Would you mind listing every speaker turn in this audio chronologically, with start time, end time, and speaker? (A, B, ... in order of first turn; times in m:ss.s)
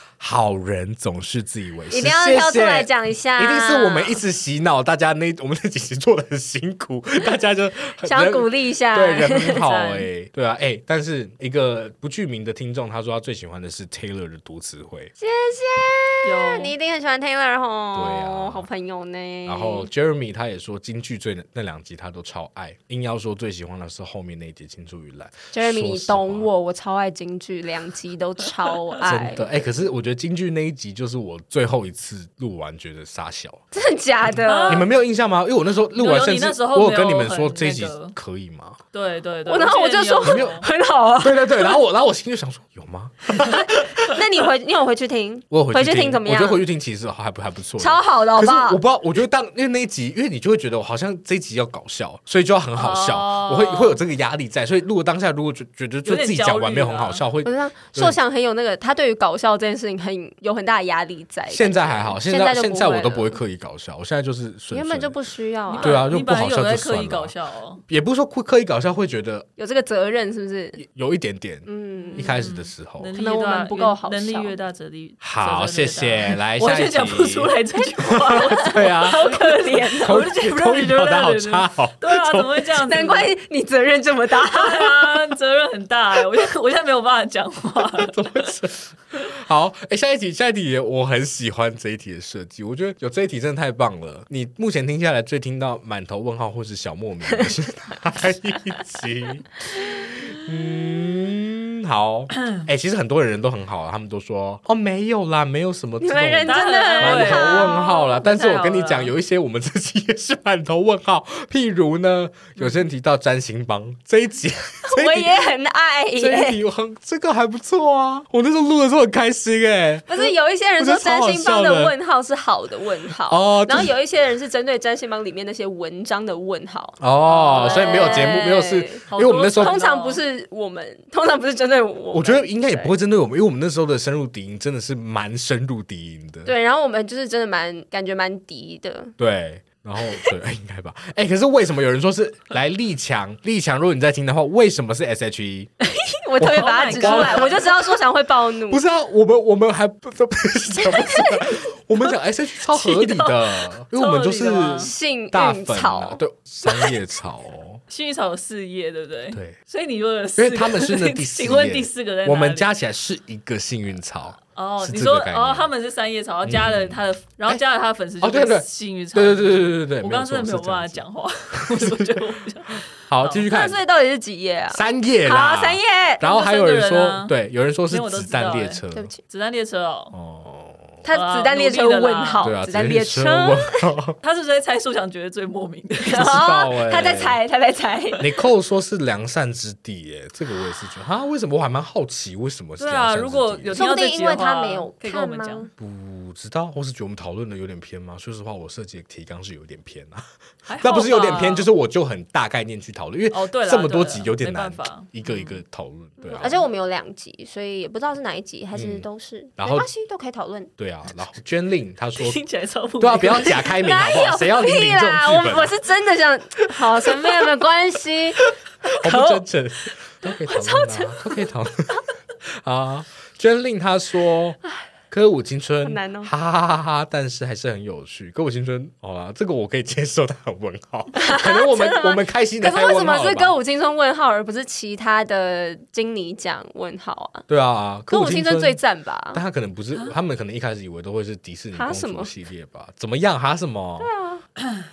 0:00.2-0:15.1 A
0:01.9-0:04.2 B
0:08.0-0:09.6 B
0:09.6-0:10.1 C
0:15.2-0:19.9 B
0:16.2-0:16.7 C
0:17.9-0:18.7 A
0:19.5-0:26.5 A
0:25.5-0:29.5 B
0:29.0-0:33.6 A
0:33.7-0:34.9 B
0:34.5-0:34.9 C
0:34.7-0:38.8 A
0:36.0-0:38.2 C
0:38.9-0:40.6 C
0:39.5-0:41.8 B
0:40.2-0:40.6 A
0:41.2-0:44.1 A
0:44.1-0:46.6 B
0:45.5-0:58.2 A
0:47.8-0:48.8 B
0:52.8-0:54.0 C
0:56.0-0:57.2 C
0:57.4-1:03.4 B
1:01.5-1:05.2 A
1:04.7-1:06.1 B
1:05.7-1:07.8 C
1:05.8-1:07.3 A
1:07.9-1:09.5 A
1:09.6-1:10.8 B
1:10.8-1:13.1 A
1:11.7-1:12.4 B
1:12.2-1:23.3 C
1:13.2-1:14.6 B
1:15.2-1:17.6 A
1:18.1-1:19.4 A
1:18.2-1:20.3 B
1:20.0-1:22.7 A
1:22.8-1:25.1 B
1:24.4-1:28.5 C
1:28.0-1:55.4 A
1:46.0-1:48.2 B
1:46.5-1:49.1 C
1:54.9-1:56.6 B
1:56.2-2:01.9 A
2:00.1-2:12.9 B
2:03.3-2:03.9 A
2:07.0-2:09.8 A
2:07.3-2:08.4 C
2:09.1-2:10.2 C
2:12.1-2:16.5 A
2:16.4-2:19.1 B
2:19.2-2:25.7 A
2:25.8-2:28.8 B
2:26.4-2:27.8 A
2:26.5-2:27.7 C
2:28.7-2:37.8 A
2:31.0-2:31.5 B
2:32.7-2:34.9 C
2:34.8-2:36.2 B
2:37.9-2:42.7 C
2:39.3-2:39.6 A
2:40.4-2:45.7 A
2:44.6-2:53.5 C
2:46.4-2:47.6 A
2:48.2-2:51.0 A
2:51.6-2:52.3 A
2:53.1-2:53.8 A
2:53.5-2:56.2 B
2:54.7-2:59.1 A
2:56.2-2:57.4 C
2:57.9-3:00.1 C
3:00.1-3:01.0 A
3:01.0-3:03.8 B
3:01.1-3:02.5 C
3:02.4-3:04.2 A
3:04.2-3:06.5 C
3:06.0-3:08.3 B
3:06.1-3:07.4 A
3:08.2-3:13.8 A
3:12.8-3:15.7 C
3:13.7-3:15.7 B
3:15.8-3:20.2 A
3:20.7-3:21.7 C
3:20.8-3:26.6 A
3:23.3-3:25.6 C
3:26.2-3:30.7 B
3:28.7-3:29.1 A
3:29.6-3:29.9 A
3:30.8-3:32.4 A
3:32.2-3:33.7 C
3:33.0-3:35.8 A
3:33.5-3:39.4 B
3:36.7-3:37.3 A
3:38.8-3:53.6 A
3:40.5-3:41.4 B
3:45.8-3:46.3 B
3:51.2-3:57.5 B
3:57.5-3:58.8 A
3:58.1-3:59.4 B
3:59.3-4:04.1 A
4:01.8-4:02.3 B
4:04.0-4:04.4 B